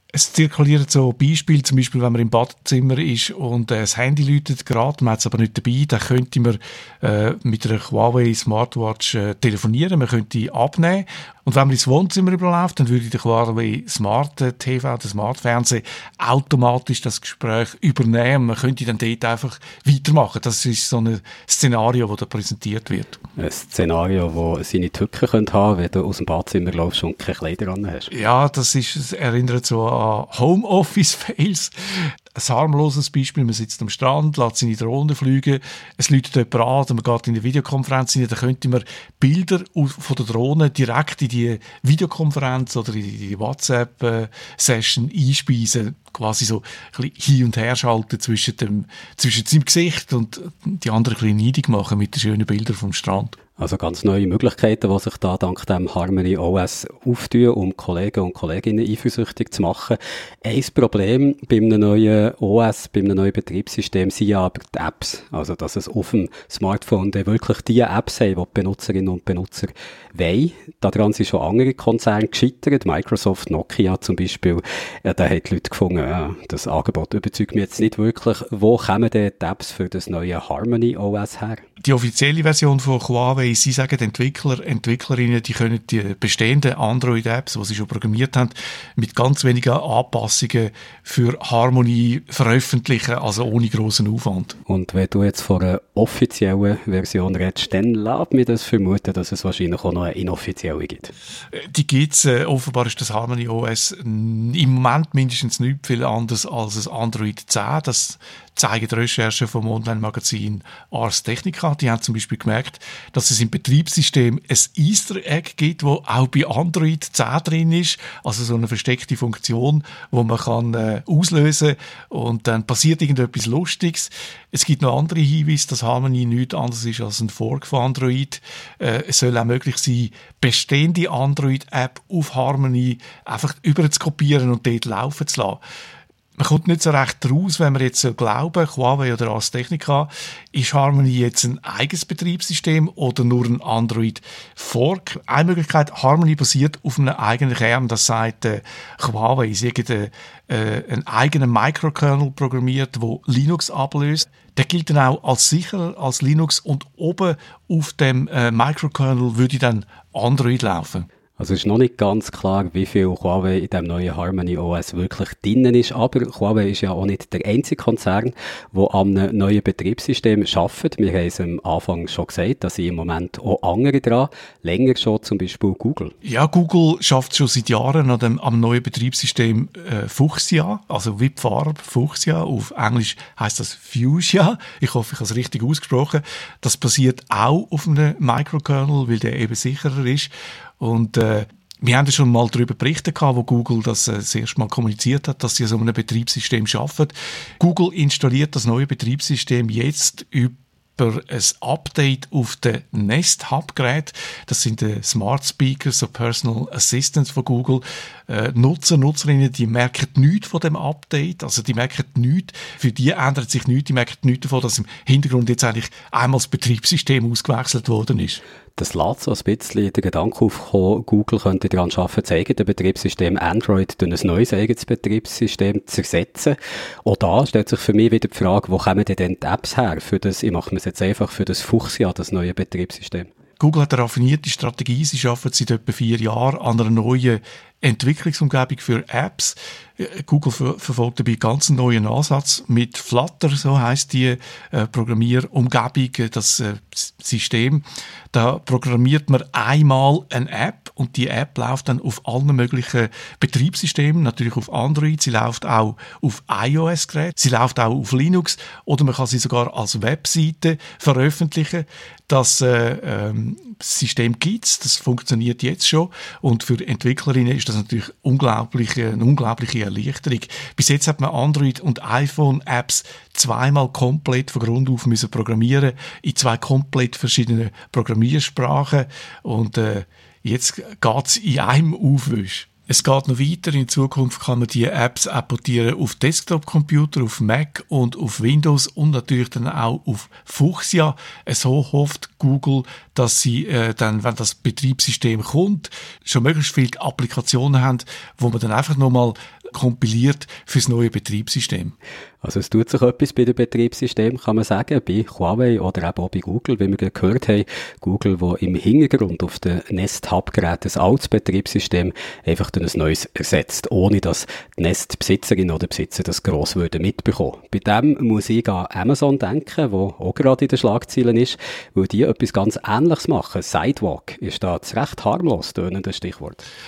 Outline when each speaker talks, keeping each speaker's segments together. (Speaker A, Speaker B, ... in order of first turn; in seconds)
Speaker A: 0.1-23.2, 28.1-53.4, 81.8-94.6, 101.5-135.6, 136.4-161.1, 176.2-218.4, 233.6-301.9
Speaker B: 23.4-28.1, 53.6-81.6, 94.7-101.1, 161.4-176.2, 218.8-233.3, 302.4-326.6